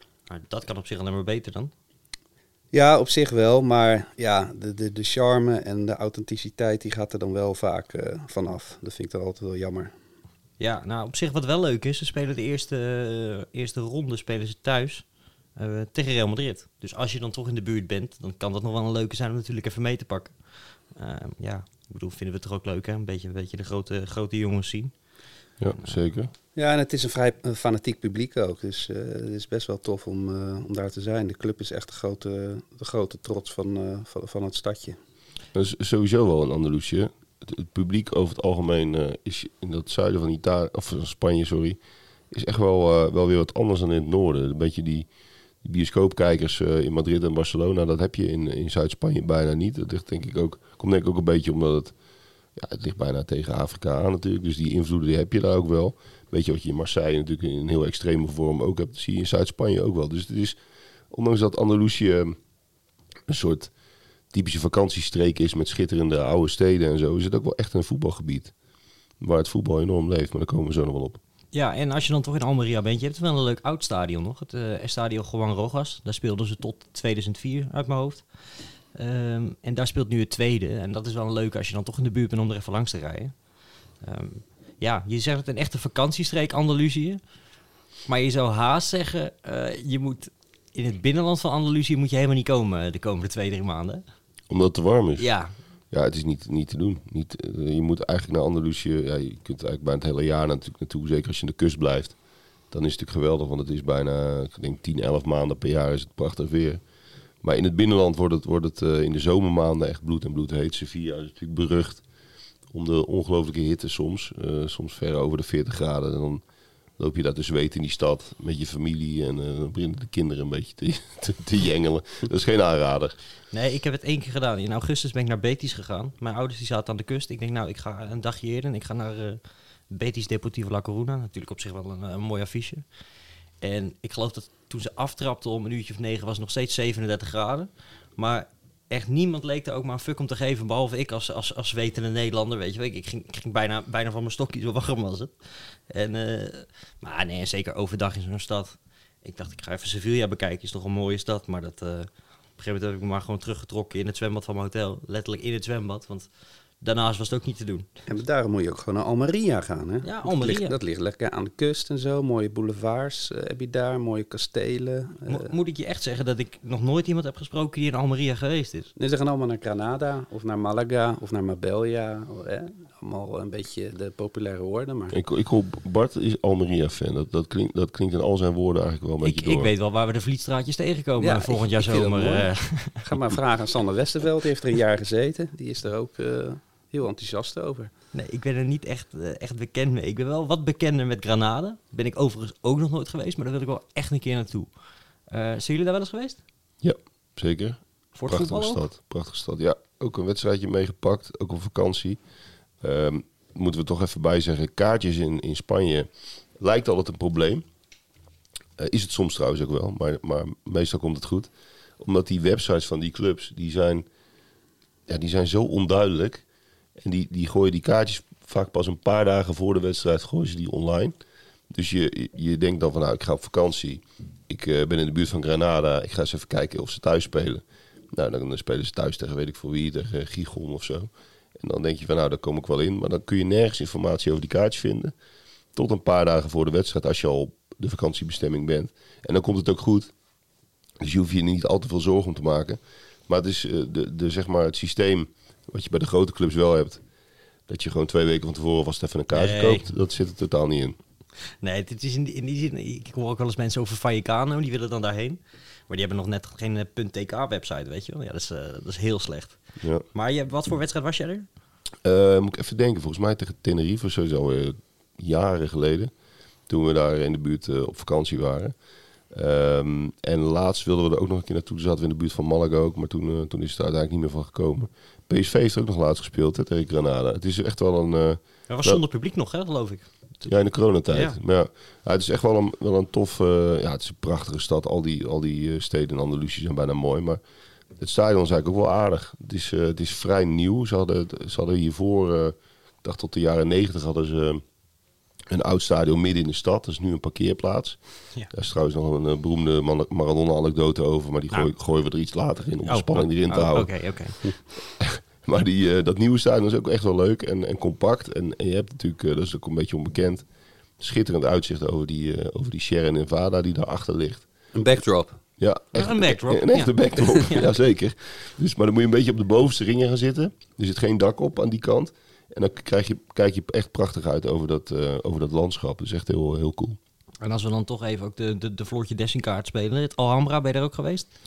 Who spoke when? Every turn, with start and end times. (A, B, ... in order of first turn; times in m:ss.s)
0:00.3-0:01.7 A
0:02.7-0:09.9 B
0:10.6-0:24.9 A
0:25.6-0:26.3 C
0:26.5-0:35.0 B
0:35.5-0:41.8 C
0:42.3-0:45.1 C
0:45.6-0:51.9 C
0:52.5-1:00.6 C
1:01.1-1:02.4 C
1:03.3-1:03.7 C
1:04.3-1:08.5 C
1:09.2-1:11.2 C
1:11.5-1:18.2 A
1:18.9-1:23.3 A
1:24.0-1:27.2 A
1:28.1-1:34.0 A
1:34.5-1:35.3 C
1:35.2-1:35.5 A
1:35.9-1:42.2 C
1:42.7-1:46.8 C
1:47.4-1:52.0 C
1:52.7-1:56.4 C
1:57.0-2:03.2 C
2:03.5-2:12.8 A
2:13.6-2:36.3 A
2:36.8-2:37.9 A
2:38.1-2:45.5 B
2:40.0-2:40.8 A
2:45.2-2:48.9 A
2:49.0-2:55.2 B
2:55.1-2:59.7 C
2:59.2-3:03.1 A
3:01.2-3:07.9 B
3:08.1-3:14.7 A
3:15.3-3:16.4 A
3:16.8-3:22.2 C
3:18.1-3:18.9 A
3:22.8-3:27.6 C
3:28.8-3:34.0 C
3:35.1-3:36.4 C
3:37.0-3:41.1 C
3:41.7-3:47.6 C
3:48.1-3:55.1 C
3:55.7-4:00.1 C
4:01.0-4:07.0 C
4:07.7-4:11.0 C
4:09.3-4:09.9 A
4:11.6-4:21.5 A
4:22.0-4:26.1 C
4:26.7-4:28.8 C
4:29.3-4:39.0 C
4:38.7-4:41.4 A
4:40.4-4:47.4 C
4:48.0-4:54.6 C
4:55.5-5:03.9 C
5:02.9-5:04.4 A
5:05.0-5:10.4 C
5:11.0-5:14.4 C
5:14.7-5:15.4 B
5:15.6-5:27.0 C
5:15.9-5:17.7 A
5:27.4-5:31.3 A